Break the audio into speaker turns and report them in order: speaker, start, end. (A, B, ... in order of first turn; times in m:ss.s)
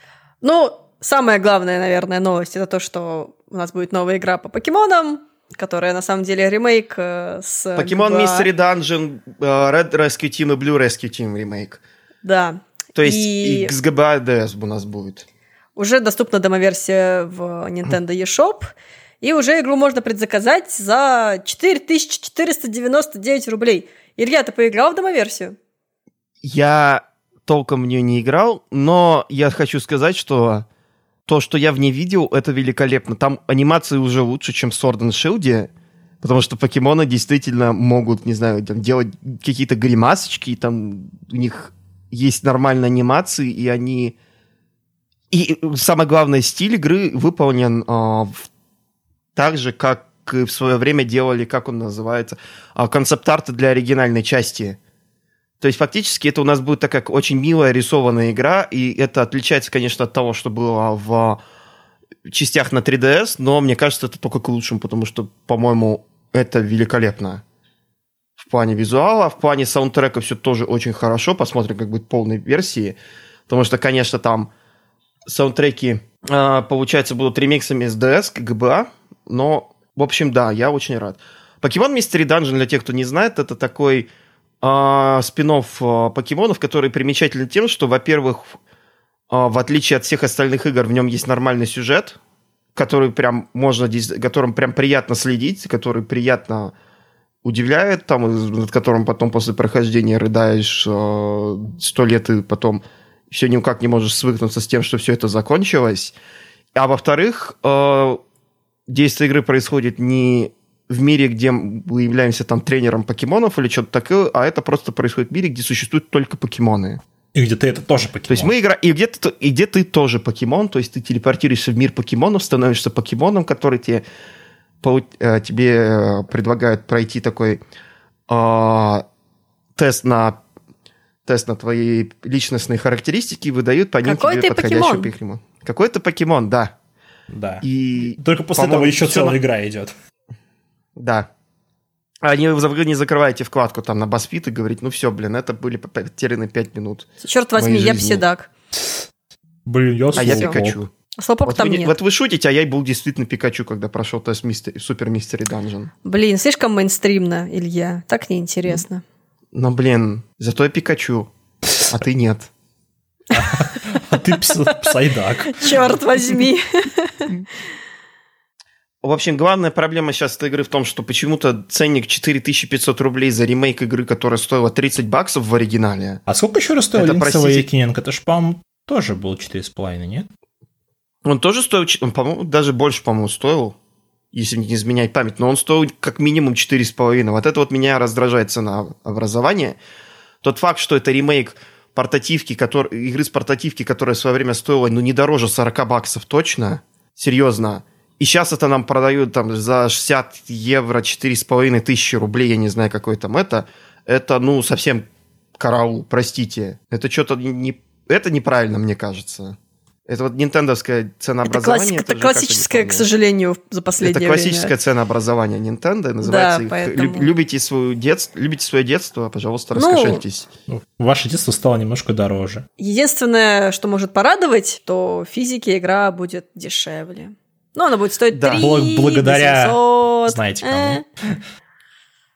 0:00.4-0:08.5 A
0:07.8-0:11.8 B
0:12.2-0:13.8 A
0:13.0-0:15.3 B
0:15.8-0:25.6 A
0:26.4-0:30.7 B
0:31.3-0:44.2 B
0:45.3-0:48.5 B
0:49.4-0:54.8 B
0:55.6-1:01.4 B
1:02.3-1:07.4 B
1:08.4-1:13.0 B
1:13.5-1:14.5 B
1:15.3-1:24.1 B
1:24.6-1:28.6 B
1:29.3-1:32.2 B
1:32.8-1:36.7 B
1:37.4-1:46.1 B
1:46.8-1:48.2 B
1:48.9-1:57.0 B
1:57.3-1:58.5 C
1:58.3-2:04.0 B
2:04.8-2:07.6 B
2:08.3-2:09.0 B
2:09.8-2:10.4 B
2:11.3-2:16.7 B
2:14.0-2:15.1 A
2:17.3-2:19.9 C
2:17.6-2:19.4 B
2:21.0-2:21.3 B
2:22.2-2:28.2 B
2:27.2-2:28.5 A
2:29.7-2:30.8 C
2:30.2-2:30.9 B
2:30.2-2:30.6 A
2:31.2-2:31.9 A
2:31.5-2:35.9 B
2:36.0-2:39.0 A
2:39.5-2:41.3 B
2:41.8-2:42.5 B
2:43.3-2:45.9 C
2:45.5-2:47.3 A
2:49.0-2:56.2 B
2:56.3-3:00.3 C
2:56.9-2:57.7 B
3:01.2-3:03.8 B
3:04.3-3:09.8 B
3:10.4-3:33.1 B
3:31.4-3:34.7 A
3:34.0-3:40.5 B
3:36.2-3:37.3 A
3:39.8-3:40.2 A
3:40.7-3:42.6 C
3:42.8-3:51.0 A
3:48.3-3:48.7 B
3:48.5-3:51.4 C